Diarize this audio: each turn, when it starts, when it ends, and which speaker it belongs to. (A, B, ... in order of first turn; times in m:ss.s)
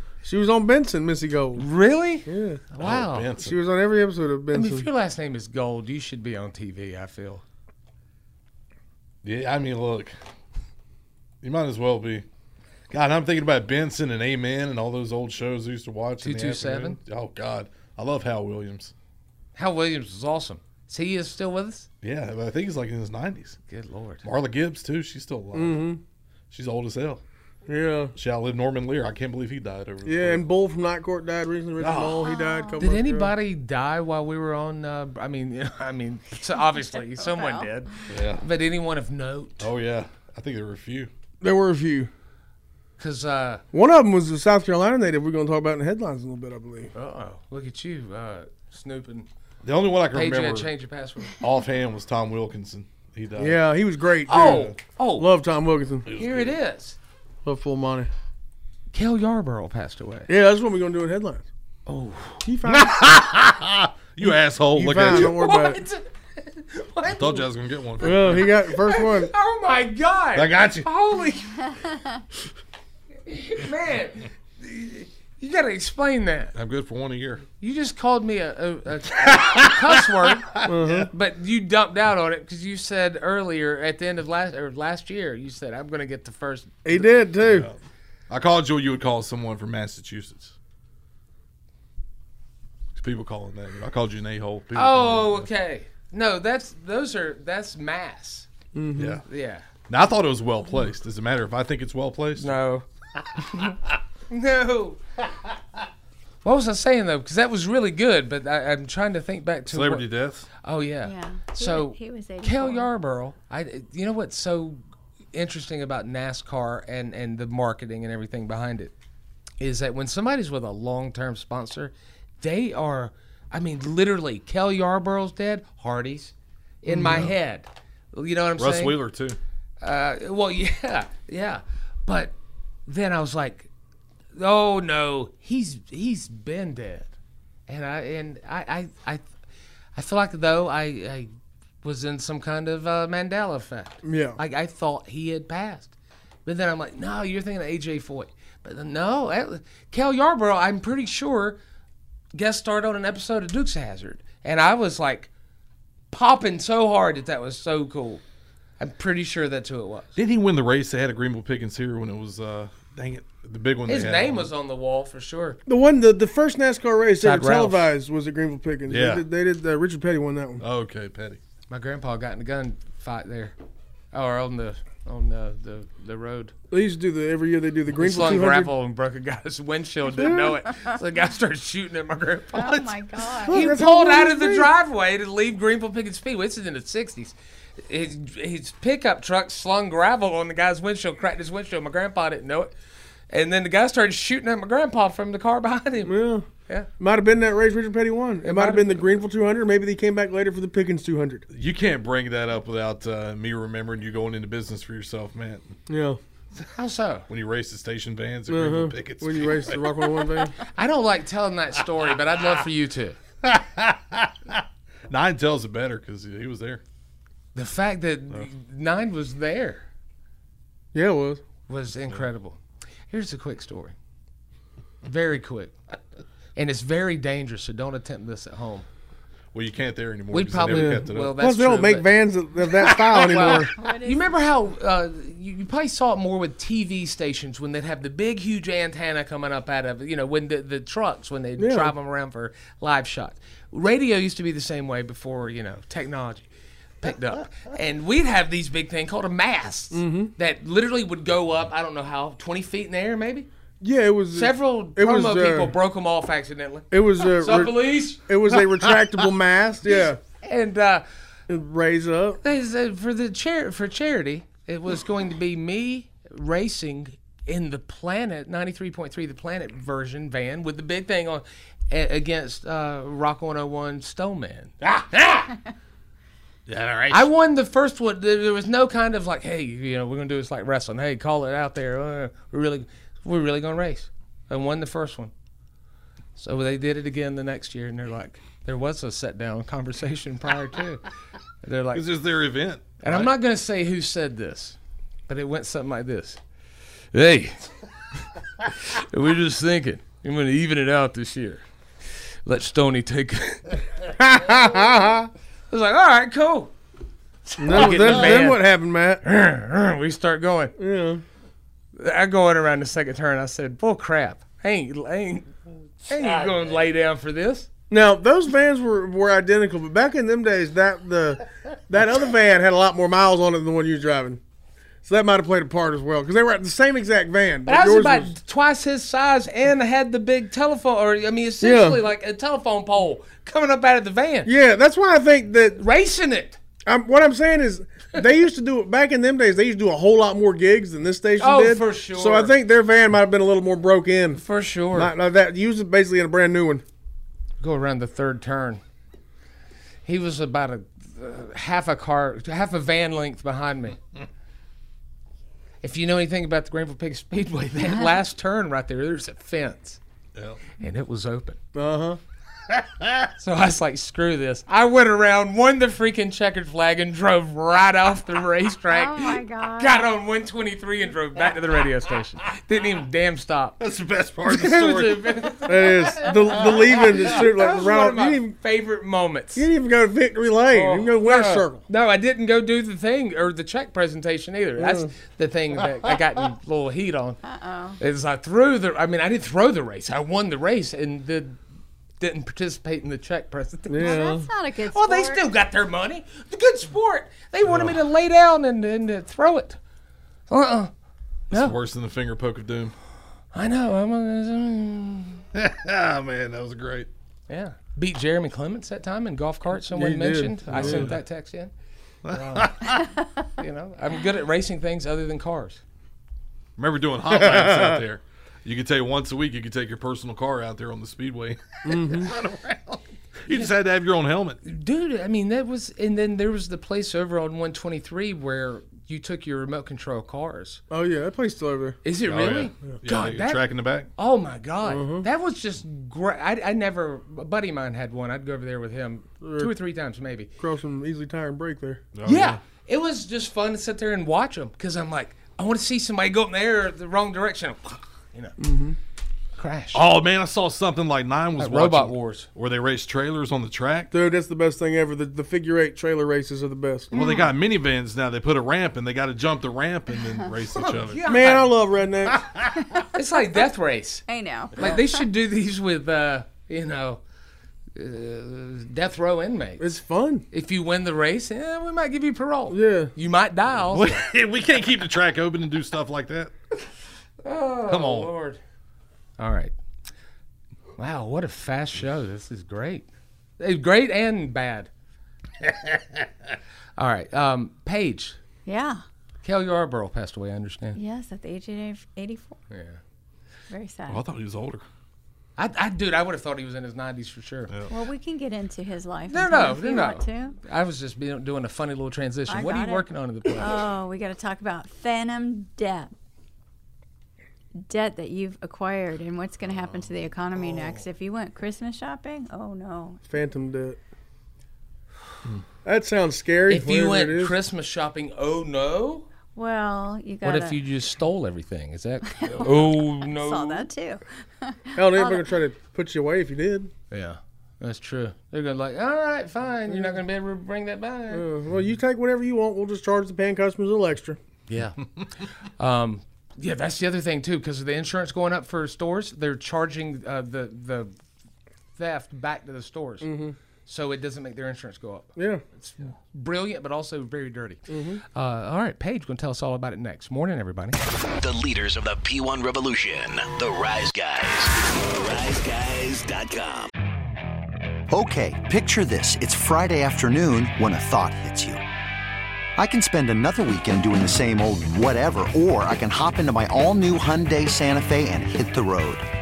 0:00.2-0:01.7 A
0:01.6-0:03.3 B
0:02.3-0:02.7 A
0:02.8-0:03.6 C
0:03.4-0:04.9 A
0:04.5-0:07.4 B
0:09.2-0:10.1 C
0:11.4-0:12.2 C
0:12.9-0:18.9 C
0:16.2-0:17.0 B
0:19.6-0:21.9 B
0:22.0-0:23.6 C
0:23.7-0:24.2 B
0:24.2-0:25.8 C
0:25.5-0:26.0 A
0:26.5-0:27.2 C
0:27.7-0:28.1 A
0:28.2-0:30.5 C
0:30.0-0:33.3 A
0:31.8-0:32.2 C
0:32.2-0:32.8 D
0:32.8-0:39.7 B
0:36.9-0:38.1 D
0:38.1-0:38.4 C
0:39.6-0:41.1 C
0:41.4-0:42.1 A
0:43.0-0:43.6 B
0:43.7-0:46.9 A
0:46.9-0:49.3 B
0:49.6-0:50.7 C
0:50.1-0:51.3 B
0:51.4-0:53.6 C
0:53.4-0:56.1 A
0:54.3-0:55.3 B
0:54.4-0:54.7 C
0:56.1-0:56.5 C
0:56.1-0:57.0 B
0:57.4-0:58.1 A
0:58.9-1:00.3 B
1:00.3-1:01.5 A
1:01.9-1:02.3 B
1:02.4-1:03.2 A
1:02.7-1:05.4 C
1:04.2-1:05.8 A
1:05.1-1:07.5 B
1:07.1-1:08.5 C
1:08.0-1:11.7 B
1:08.0-1:09.3 A
1:10.4-1:10.9 C
1:13.3-1:16.5 B
1:16.6-1:17.4 C
1:17.6-1:20.5 B
1:19.2-1:21.1 C
1:20.7-1:21.1 A
1:21.1-1:26.9 B
1:26.8-1:27.7 A
1:27.4-1:27.8 C
1:28.3-1:30.5 C
1:33.0-1:35.5 C
1:34.7-1:38.5 B
1:38.7-1:39.2 A
1:39.0-1:39.2 C
1:39.3-1:39.7 B
1:39.9-1:42.6 C
1:42.4-1:42.9 B
1:44.3-1:45.0 B
1:46.4-1:50.1 B
1:49.7-1:50.5 C
1:50.6-1:54.8 B
1:51.0-1:52.9 D
1:55.3-1:58.9 B
1:59.6-2:09.0 B
2:06.9-2:07.3 C
2:08.6-2:09.4 C
2:09.8-2:12.4 B
2:12.9-2:13.7 B
2:14.4-2:17.1 B
2:17.7-2:19.3 B
2:20.0-2:21.3 B
2:21.8-2:25.9 B
2:24.0-2:24.4 A
2:26.5-2:31.6 B
2:32.3-2:35.3 B
2:36.1-2:38.2 B
2:38.8-2:40.1 B
2:40.2-2:44.5 C
2:43.9-2:45.6 B
2:45.7-2:50.6 A
2:47.2-2:47.9 B
2:48.9-2:49.2 C
2:50.6-2:51.4 C
2:51.7-2:53.6 B
2:54.1-2:56.5 B
2:56.7-2:58.7 A
2:58.0-3:02.9 B
3:00.2-3:00.5 A
3:02.5-3:03.8 D
3:03.4-3:04.7 A
3:03.5-3:12.7 B
3:13.3-3:16.1 B
3:16.0-3:16.5 A
3:17.0-3:21.5 A
3:18.4-3:19.1 B
3:21.5-3:25.8 C
3:25.9-3:26.2 A
3:26.7-3:27.3 B
3:27.3-3:29.9 C
3:28.5-3:30.6 A
3:30.7-3:33.2 B
3:33.4-3:36.8 C
3:37.6-3:39.8 B
3:40.9-3:41.4 A
3:41.7-3:42.6 B
3:43.1-3:44.0 B
3:45.0-3:45.8 B
3:46.6-3:48.9 B
3:49.5-3:51.4 C
3:50.3-3:52.1 B
3:50.7-3:53.7 A
3:53.2-4:06.5 B
3:53.8-3:54.3 D
4:01.6-4:01.9 A
4:07.0-4:13.5 B
4:09.9-4:10.3 A
4:13.8-4:15.7 A
4:14.3-4:18.2 B
4:16.9-4:20.2 A
4:20.4-4:21.0 B
4:21.5-4:22.4 A
4:22.4-4:34.7 B
4:34.8-4:35.5 C
4:36.7-4:37.3 C
4:37.1-4:45.3 B
4:46.4-4:51.0 B
4:51.6-4:52.1 B
4:51.9-4:53.3 C
4:53.0-4:54.8 B
4:55.3-4:56.4 B
4:57.1-4:57.7 B
4:58.8-5:01.6 B
5:02.5-5:03.8 B
5:04.2-5:05.3 A
5:05.7-5:06.7 B
5:07.5-5:08.6 B
5:07.6-5:09.2 A
5:09.2-5:10.8 B
5:10.8-5:11.2 A
5:12.0-5:15.5 B
5:16.1-5:17.7 B
5:16.3-5:16.6 C
5:17.9-5:24.4 A
5:25.0-5:28.3 A
5:27.7-5:34.5 B
5:31.6-5:32.0 A
5:34.4-5:35.8 A
5:35.8-5:36.6 B
5:36.9-5:44.4 A
5:41.4-5:42.5 B
5:44.4-5:45.1 B
5:44.9-5:46.8 A
5:47.6-5:48.8 B
5:50.1-5:54.0 B
5:55.8-6:00.0 B
6:00.8-6:01.6 B
6:01.8-6:02.2 A
6:02.7-6:03.3 C
6:03.4-6:13.8 B
6:08.9-6:10.0 D
6:13.8-6:15.4 C
6:14.4-6:19.7 B
6:15.7-6:18.5 A
6:19.6-6:21.8 A
6:20.7-6:27.4 B
6:24.8-6:25.1 A
6:27.4-6:28.0 D
6:28.0-6:31.6 B
6:32.2-6:34.2 B
6:33.9-6:34.5 A
6:34.0-6:35.4 D
6:34.9-6:39.8 B
6:37.7-6:37.9 C
6:40.5-6:40.9 B
6:41.5-6:42.9 C
6:41.5-6:41.8 B
6:43.5-6:45.4 B
6:45.5-6:47.1 C
6:47.5-6:51.7 B
6:49.9-6:51.1 A
6:50.7-6:51.2 C
6:52.2-6:53.0 C
6:52.3-6:52.9 B
6:53.6-6:55.8 B
6:56.8-7:04.6 C
7:01.9-7:02.3 A
7:04.6-7:10.8 B
7:10.9-7:12.0 A
7:12.0-7:20.5 B
7:12.2-7:14.1 C
7:14.8-7:15.3 A
7:19.4-7:19.7 A
7:20.6-7:22.0 A
7:22.1-7:22.6 C
7:22.2-7:28.6 B
7:28.6-7:29.0 A
7:29.6-7:30.0 B
7:29.9-7:34.1 C
7:31.6-7:32.5 B
7:34.1-7:37.1 A
7:37.1-7:37.5 D
7:37.1-7:41.2 C
7:40.8-7:41.7 B
7:41.3-7:42.4 A
7:43.1-7:47.2 B
7:44.3-7:45.3 D
7:48.0-7:54.2 B
7:49.8-7:50.4 A
7:52.7-7:53.1 A
7:53.8-7:56.5 C
7:57.4-7:58.6 B
7:57.9-7:58.3 C
7:59.4-7:59.7 B
8:01.0-8:03.1 B
8:03.6-8:04.9 B
8:07.0-8:08.4 B
8:08.7-8:09.0 D
8:09.4-8:11.0 B
8:11.0-8:12.6 D
8:12.7-8:13.0 B
8:13.7-8:14.2 D
8:14.1-8:14.8 C
8:15.6-8:17.7 B
8:17.9-8:20.6 D
8:19.3-8:23.8 B
8:22.5-8:26.1 D
8:27.8-8:33.2 D
8:33.3-8:34.0 A
8:35.8-8:37.6 A
8:36.7-8:39.3 B
8:39.6-8:40.8 D
8:40.4-8:43.9 B
8:42.3-8:45.6 D
8:45.0-8:46.9 A
8:47.1-8:51.4 B
8:49.9-8:50.2 A
8:51.3-8:54.4 A
8:54.7-8:55.1 B
8:55.8-9:01.1 B
9:02.0-9:03.3 B
9:03.2-9:03.6 A
9:03.9-9:11.0 B
9:05.4-9:05.6 A
9:07.9-9:08.2 A
9:11.4-9:16.9 E
9:18.2-9:21.7 F
9:22.8-9:29.2 F